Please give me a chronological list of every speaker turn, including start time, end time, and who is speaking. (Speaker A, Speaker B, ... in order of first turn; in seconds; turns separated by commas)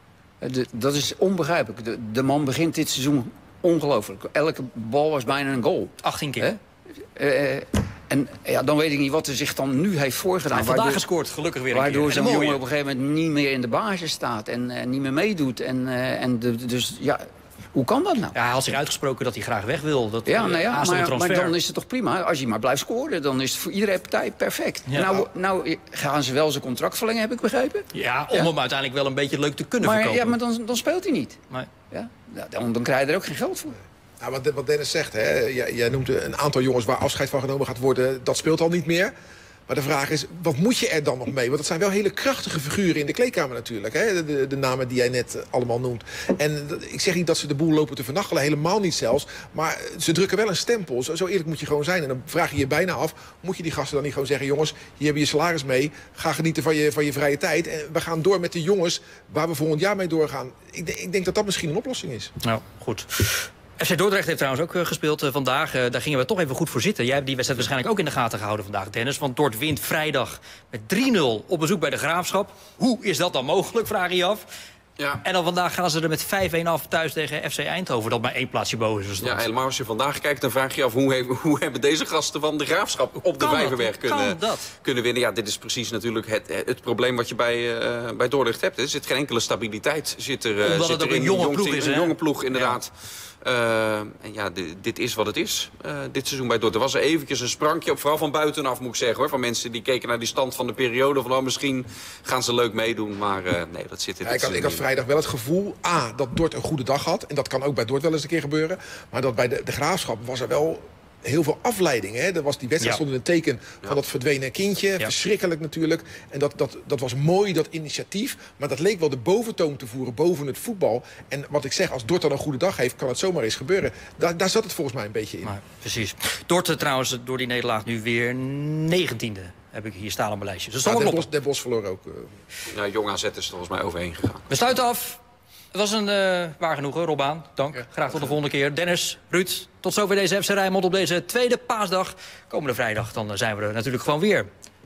Speaker A: 0.4-6.6, Speaker B: 6.0-6.5, Speaker A: 7.2-11.0, Speaker B: 10.5-12.6, Speaker A: 11.7-18.4, Speaker B: 18.3-21.6, Speaker A: 20.3-28.5, Speaker B: 24.9-25.2, Speaker B: 27.9-30.4, Speaker A: 29.8-31.4, Speaker A: 31.9-33.8, Speaker C: 34.2-39.1, Speaker C: 39.7-62.3, Speaker B: 62.4-74.5, Speaker D: 75.0-75.2, Speaker B: 75.2-79.4, Speaker D: 79.2-92.9, Speaker B: 83.3-84.7, Speaker B: 90.6-92.8, Speaker D: 93.4-104.8, Speaker C: 104.2-125.5, Speaker B: 125.4-131.2, Speaker C: 130.8-132.3, Speaker D: 132.7-134.4, Speaker B: 134.5-135.2, Speaker B: 135.7-144.5